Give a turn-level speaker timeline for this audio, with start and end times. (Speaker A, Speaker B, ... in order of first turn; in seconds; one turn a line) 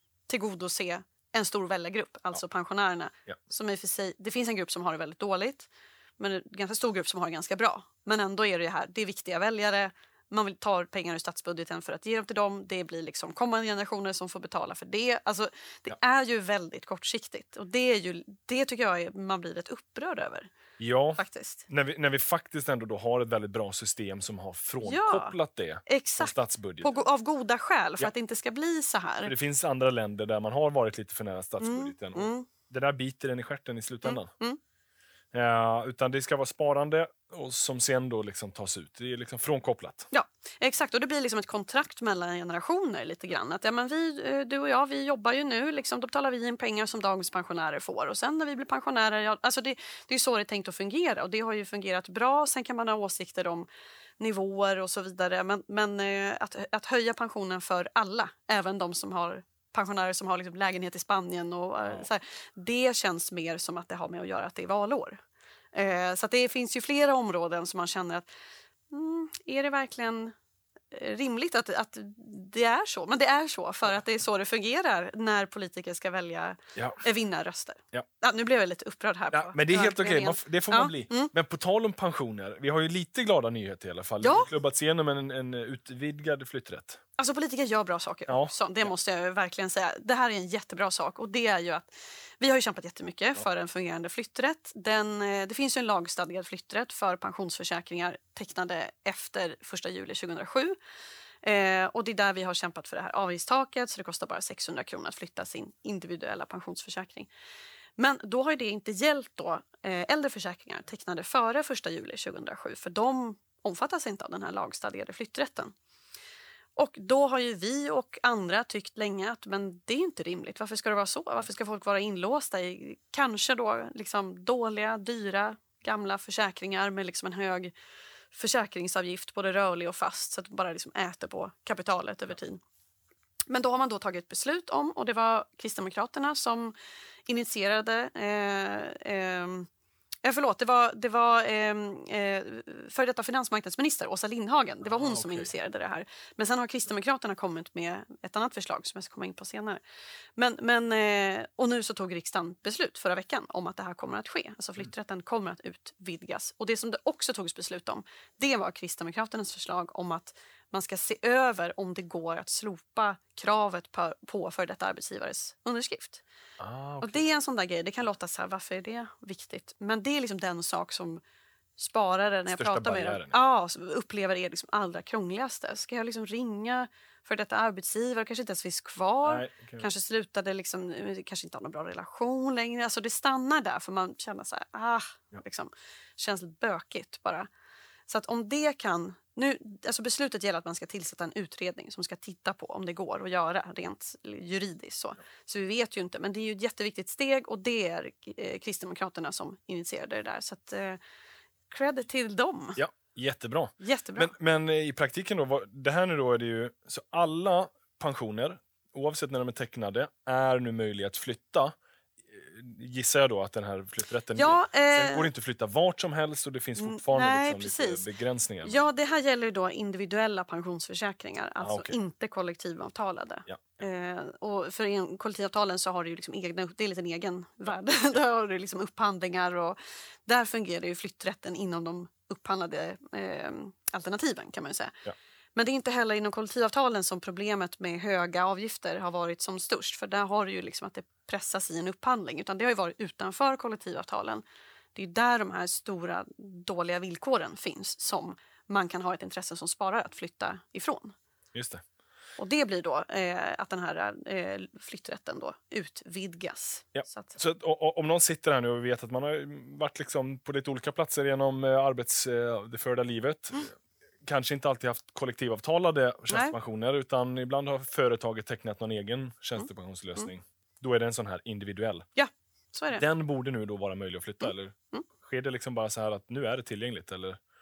Speaker A: 0.3-20.5
Speaker B: 20.8-26.9
Speaker A: 21.2-21.7
Speaker A: 24.8-25.3
Speaker A: 25.9-29.3
Speaker B: 29.2-34.3
Speaker A: 31.6-32.5
Speaker A: 34.0-34.6
Speaker B: 35.3-40.1
Speaker A: 40.1-53.7
Speaker A: 54.2-65.2
Speaker A: 65.7-68.3
Speaker A: 68.9-70.3
Speaker A: 70.9-81.3
Speaker B: 76.8-77.0
Speaker B: 79.3-87.0
Speaker A: 84.2-84.5
Speaker A: 87.2-100.8
Speaker B: 88.3-88.9
Speaker A: 101.4-107.3
Speaker A: 108.0-115.7
Speaker A: 116.8-127.7
Speaker A: 128.3-132.6
Speaker A: 133.5-136.8
Speaker A: 137.3-139.7
Speaker A: 140.2-149.8
Speaker B: 144.9-145.5
Speaker A: 150.4-166.2
Speaker B: 166.6-167.2
Speaker A: 167.0-171.2
Speaker A: 171.8-187.5
Speaker B: 172.5-173.3
Speaker B: 179.2-179.9
Speaker A: 188.1-201.0
Speaker A: 201.7-202.8
Speaker B: 202.8-211.7
Speaker A: 203.8-204.3
Speaker B: 212.3-218.8
Speaker A: 214.4-215.3
Speaker A: 216.8-218.0
Speaker A: 218.7-244.4
Speaker B: 221.6-222.0
Speaker B: 223.5-223.8
Speaker A: 244.9-251.1
Speaker B: 251.5-251.8
Speaker A: 252.4-257.4
Speaker B: 256.9-272.1
Speaker A: 266.3-266.6
Speaker A: 272.2-273.0
Speaker B: 272.9-277.4
Speaker A: 274.4-275.1